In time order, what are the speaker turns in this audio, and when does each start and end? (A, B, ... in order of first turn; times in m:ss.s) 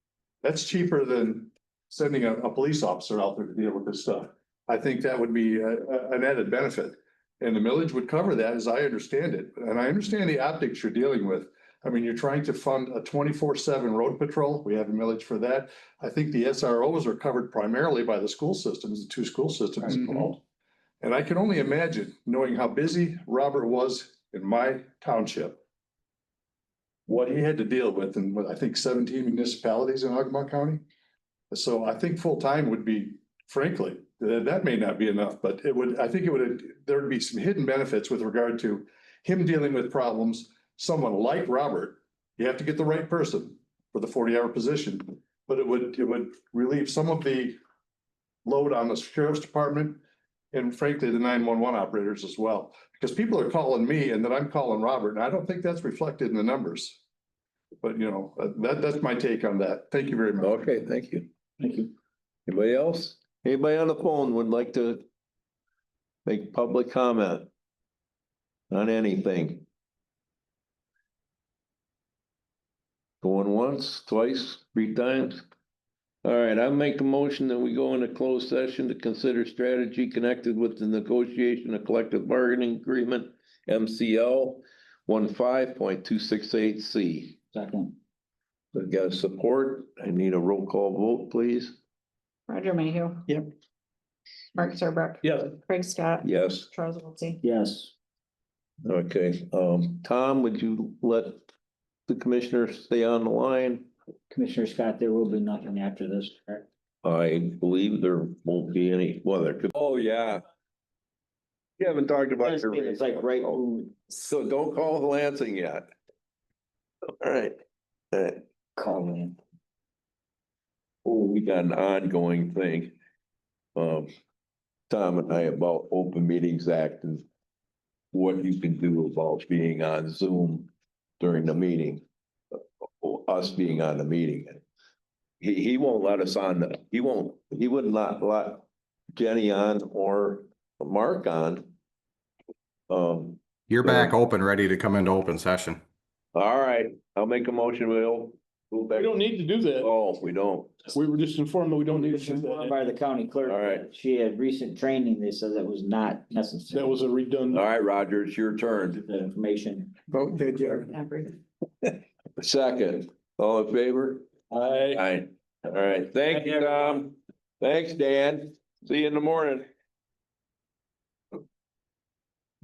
0:00.4-0:20.4 A
0:21.0-0:25.6 A
0:27.1-0:30.8 A
0:31.5-0:47.6 A
0:48.4-0:50.0 A
0:50.5-0:57.0 A
0:57.8-1:00.6 A
1:00.4-1:01.3 B
1:01.6-1:01.9 C
1:02.5-1:05.0 B
1:06.3-1:07.5 B
1:08.7-1:09.6 B
1:13.2-1:15.4 B
1:16.2-1:27.4 B
1:27.5-1:28.0 C
1:28.7-1:31.8 B
1:32.5-1:33.4 D
1:34.6-1:37.4 D
1:36.2-1:36.7 B
1:37.4-1:37.9 C
1:38.8-1:41.5 B
1:42.1-1:43.9 B
1:44.3-1:46.7 C
1:47.0-1:50.4 B
1:51.8-1:55.8 B
1:52.4-1:53.9 C
1:57.2-1:57.6 B
1:58.1-1:58.4 B
1:58.8-1:59.4 C
2:01.0-2:03.0 B
2:03.8-2:04.1 B
2:04.9-2:07.2 B
2:08.1-2:10.7 B
2:11.2-2:12.0 B
2:13.0-2:14.6 B
2:15.4-2:21.7 B
2:22.9-2:24.2 B
2:23.7-2:25.8 E
2:26.4-2:29.2 B
2:28.9-2:29.9 F
2:29.8-2:30.9 B
2:30.9-2:32.8 F
2:31.9-2:37.0 C
2:33.5-2:33.9 B
2:36.7-2:37.7 F
2:37.5-2:39.0 B
2:38.9-2:40.0 C
2:40.8-2:41.4 D
2:42.4-2:44.4 B
2:44.5-2:45.0 F
2:44.9-2:49.7 B